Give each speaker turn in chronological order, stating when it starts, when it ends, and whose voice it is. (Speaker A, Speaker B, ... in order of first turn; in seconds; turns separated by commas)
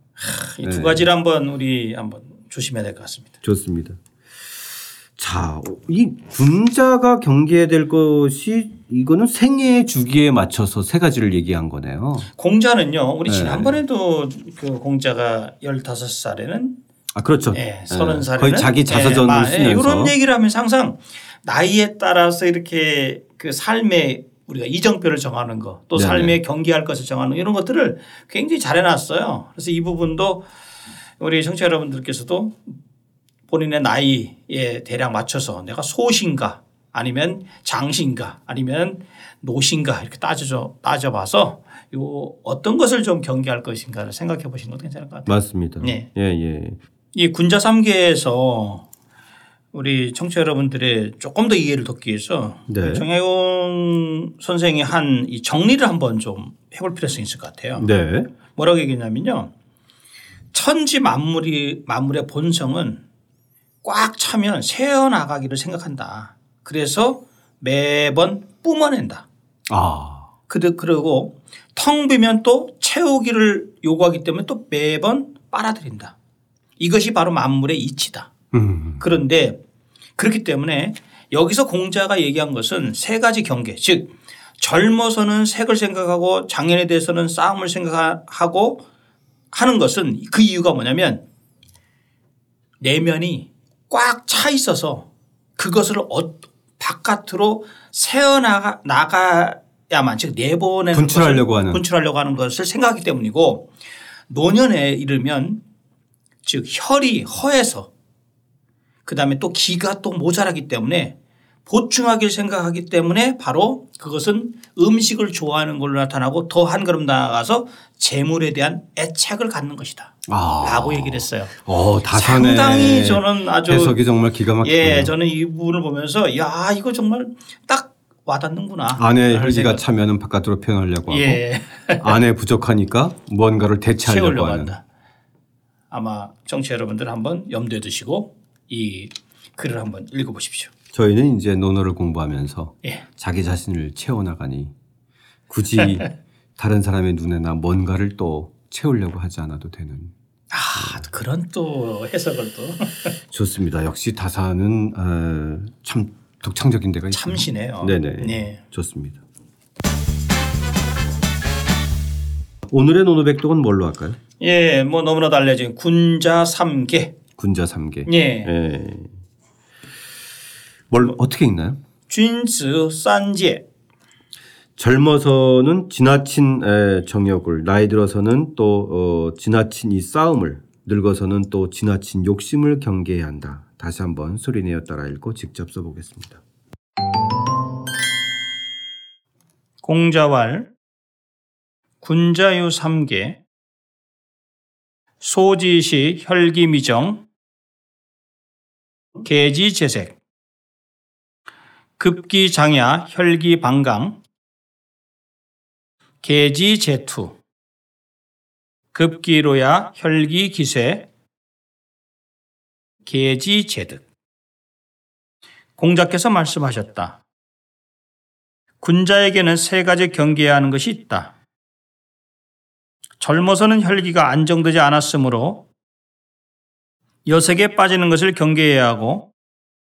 Speaker A: 0.2-3.3, Speaker B: 0.6-1.1, Speaker B: 3.4-4.0, Speaker B: 5.2-12.3, Speaker A: 12.3-16.7, Speaker B: 13.2-13.8, Speaker B: 17.1-20.1, Speaker A: 17.5-30.4, Speaker B: 25.9-26.4, Speaker A: 31.2-32.6, Speaker A: 33.5-46.1, Speaker B: 45.2-46.8, Speaker A: 47.1-48.9, Speaker A: 49.7-57.9, Speaker B: 52.7-53.0, Speaker B: 57.8-58.3, Speaker A: 58.5-59.5, Speaker A: 60.5-63.0, Speaker A: 63.8-69.2, Speaker B: 69.7-70.3, Speaker A: 70.5-76.1, Speaker A: 76.8-78.3, Speaker B: 78.5-79.1, Speaker A: 79.0-79.6, Speaker A: 80.2-88.8, Speaker A: 89.5-91.2, Speaker A: 92.8-103.7, Speaker B: 100.9-101.8, Speaker A: 104.3-105.6, Speaker A: 106.4-107.9, Speaker A: 109.0-111.1, Speaker A: 111.7-121.5, Speaker B: 120.3-125.1, Speaker A: 122.1-124.0, Speaker A: 124.6-129.8, Speaker B: 128.9-131.4, Speaker A: 131.1-132.2, Speaker B: 132.0-134.8, Speaker A: 134.0-134.8, Speaker A: 135.9-140.7, Speaker B: 140.9-144.7, Speaker B: 145.5-150.1, Speaker A: 150.5-153.1, Speaker B: 150.8-151.1, Speaker B: 153.3-159.2, Speaker A: 157.1-158.6, Speaker B: 162.7-164.2, Speaker A: 164.4-167.2, Speaker B: 167.4-169.1, Speaker A: 168.1-168.5, Speaker B: 170.9-171.8, Speaker A: 172.1-173.6, Speaker B: 174.8-186.4, Speaker A: 189.8-190.7, Speaker A: 192.0-193.4, Speaker A: 195.2-197.2, Speaker A: 199.2-200.1, Speaker A: 202.0-204.2, Speaker A: 206.2-207.4, Speaker A: 208.9-211.1, Speaker A: 213.0-214.0, Speaker A: 215.8-217.2, Speaker A: 218.8-221.3, Speaker A: 223.2-225.7, Speaker A: 227.2-229.3